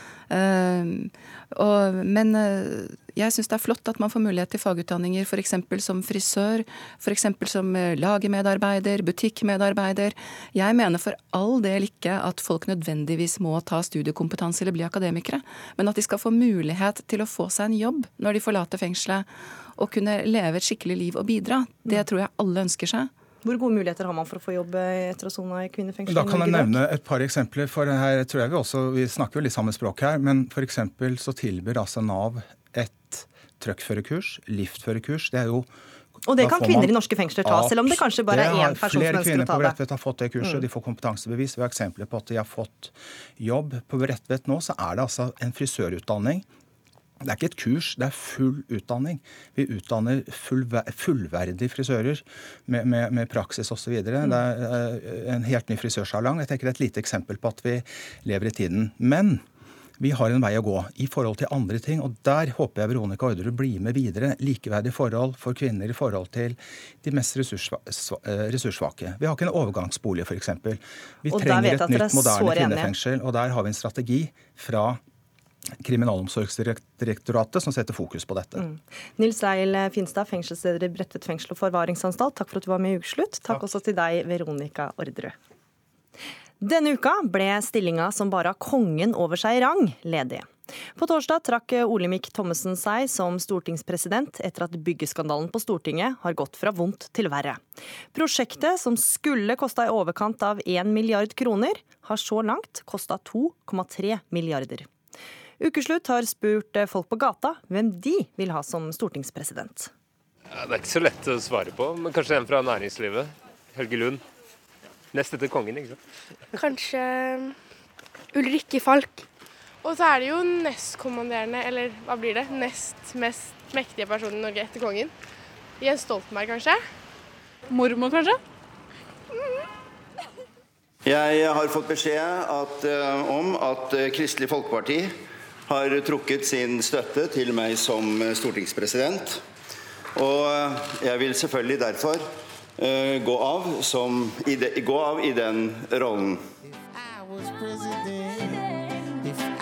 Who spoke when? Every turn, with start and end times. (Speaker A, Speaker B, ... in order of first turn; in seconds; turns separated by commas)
Speaker A: 0.3-23.1, Speaker B: 23.4-26.8, Speaker C: 26.1-35.7, Speaker B: 36.3-39.8, Speaker C: 36.3-36.9, Speaker C: 37.4-46.5, Speaker C: 47.2-59.4, Speaker C: 60.0-75.0, Speaker B: 71.3-72.9, Speaker C: 75.8-78.6, Speaker B: 78.5-85.3, Speaker B: 86.6-97.6, Speaker B: 98.1-104.9, Speaker B: 105.6-109.9, Speaker D: 110.5-114.2, Speaker D: 115.1-116.0, Speaker E: 116.5-117.6, Speaker E: 118.3-119.3, Speaker E: 119.8-125.1, Speaker E: 125.8-126.8, Speaker E: 127.7-128.4, Speaker F: 131.0-135.1, Speaker F: 135.7-139.4, Speaker F: 140.1-142.2, Speaker F: 142.8-146.4